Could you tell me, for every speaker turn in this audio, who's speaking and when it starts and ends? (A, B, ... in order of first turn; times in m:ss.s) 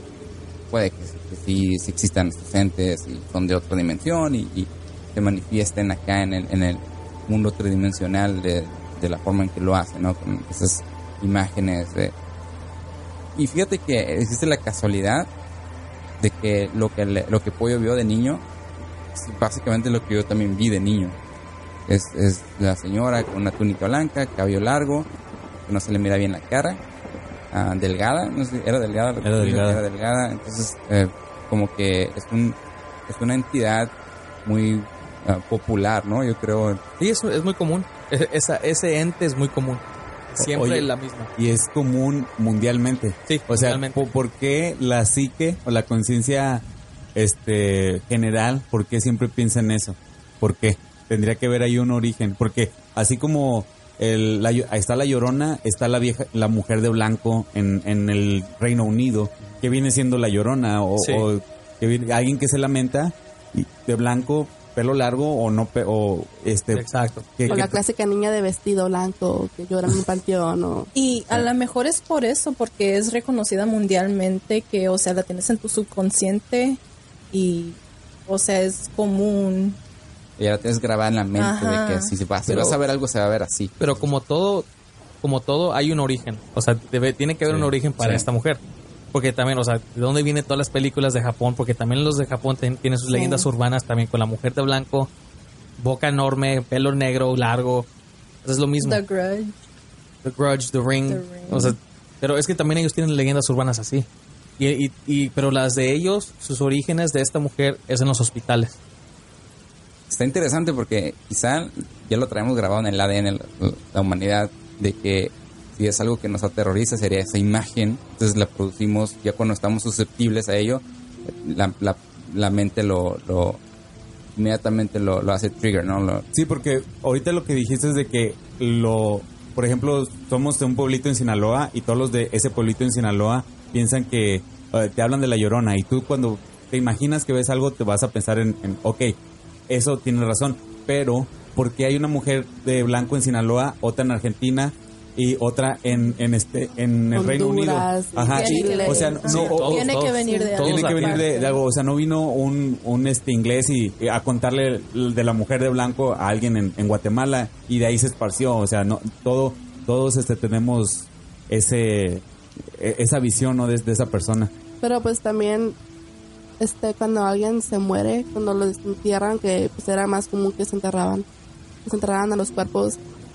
0:00.7-0:12.1 A
0:13.4-0:15.3 A
0:16.2-0:18.4 A
0:19.2-0:21.2 A
0:21.9-0:25.1 A
0:25.7-0:26.8 A
0:27.5-0:32.6 A
0:29.2-0:29.8 B
0:33.1-0:36.8 A
0:37.0-0:41.3 C
0:40.4-1:07.8 B
0:43.3-0:44.0 C
1:01.0-1:01.3 C
1:06.7-1:07.5 C
1:07.5-1:10.9 D
1:10.9-1:19.8 E
1:20.4-1:23.9 A
1:21.4-1:22.1 E
1:22.5-1:22.8 C
1:23.8-1:24.7 C
1:25.2-1:28.6 C
1:27.5-1:28.2 A
1:29.1-1:35.1 C
1:33.1-1:33.5 E
1:35.8-1:37.9 C
1:38.4-1:39.0 C
1:38.8-1:39.6 E
1:40.2-1:44.1 C
1:41.1-1:41.8 E
1:44.6-1:48.8 C
1:50.1-2:03.6 A
2:04.4-2:06.3 A
2:06.3-2:19.2 B
2:19.7-2:30.0 B
2:27.2-2:29.5 D
2:28.3-2:31.6 E
2:29.2-2:31.3 C
2:30.3-2:30.5 D
2:30.6-2:44.5 B
2:44.8-2:45.8 D
2:46.6-2:51.3 D
2:51.8-2:53.0 D